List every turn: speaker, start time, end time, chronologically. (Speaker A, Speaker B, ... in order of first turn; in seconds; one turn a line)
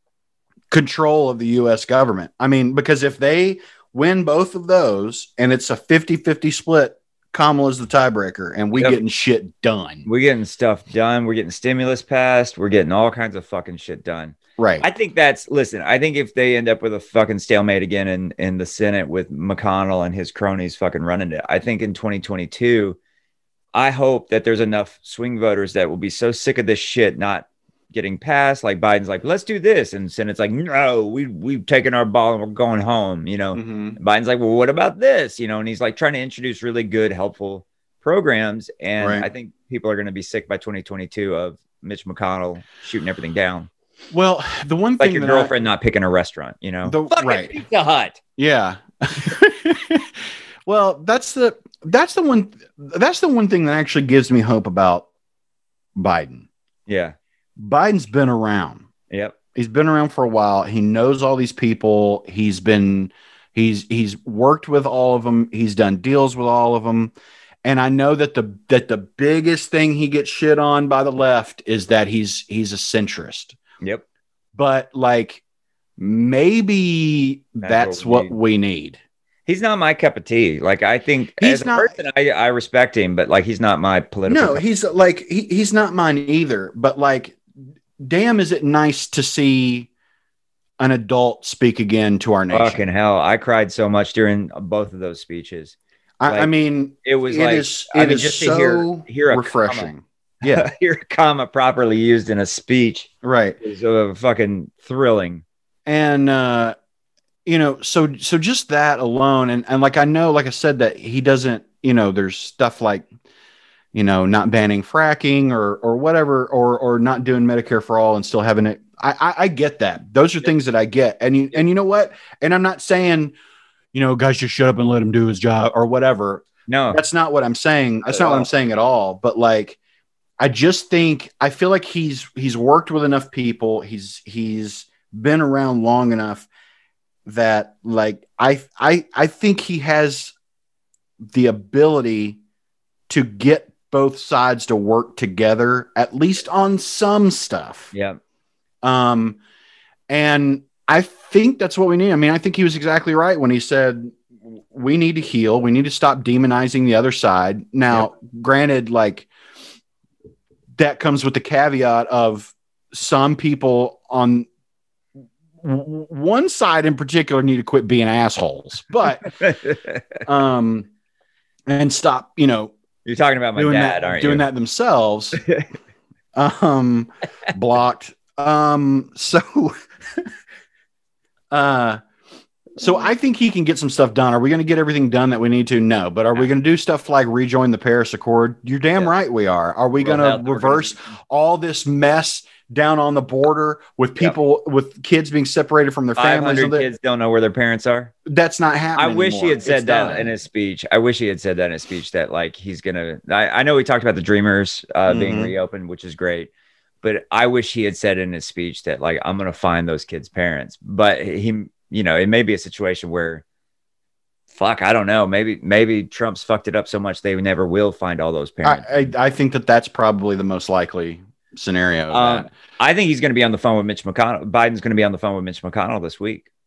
Speaker A: 0.7-10.1
Speaker B: 10.1-23.0
Speaker A: 14.6-14.9
Speaker B: 23.7-43.7
Speaker A: 33.5-34.0
Speaker A: 39.0-39.3
Speaker A: 44.1-45.5
Speaker B: 45.0-48.2
Speaker A: 46.8-47.6
Speaker A: 48.4-50.1
Speaker A: 50.6-55.1
Speaker A: 56.0-56.5
Speaker B: 56.9-57.1
Speaker A: 57.6-58.9
Speaker B: 59.1-59.4
Speaker A: 59.5-73.6
Speaker A: 74.5-75.4
Speaker A: 76.0-79.0
Speaker B: 77.6-78.3
Speaker B: 79.5-84.6
Speaker A: 81.4-81.9
Speaker A: 84.3-87.4
Speaker A: 88.0-89.9
Speaker A: 90.8-92.8
Speaker B: 92.5-95.7
Speaker A: 96.2-100.7
Speaker B: 97.0-99.9
Speaker B: 100.4-103.1
Speaker A: 103.2-103.6
Speaker B: 103.6-105.4
Speaker A: 105.8-106.7
Speaker A: 107.5-113.0
Speaker A: 113.9-123.3
Speaker A: 123.9-129.8
Speaker B: 126.7-127.0
Speaker B: 128.1-128.5
Speaker A: 130.4-136.5
Speaker A: 137.2-140.3
Speaker A: 141.3-142.4
Speaker A: 143.1-147.9
Speaker B: 147.9-148.2
Speaker A: 148.8-149.4
Speaker A: 150.1-159.3
Speaker A: 160.8-164.5
Speaker A: 165.6-169.3
Speaker B: 169.4-170.0
Speaker A: 170.2-170.9
Speaker A: 171.7-172.7
Speaker B: 173.0-174.4
Speaker A: 173.6-175.4
Speaker A: 176.3-180.2
Speaker A: 181.5-182.0
Speaker A: 182.8-196.9
Speaker B: 190.0-190.9
Speaker B: 196.2-198.1
Speaker A: 198.2-200.3
Speaker B: 198.9-206.5
Speaker A: 205.1-205.5
Speaker B: 207.0-213.4
Speaker B: 214.5-218.9
Speaker A: 218.6-222.5
Speaker B: 222.1-226.4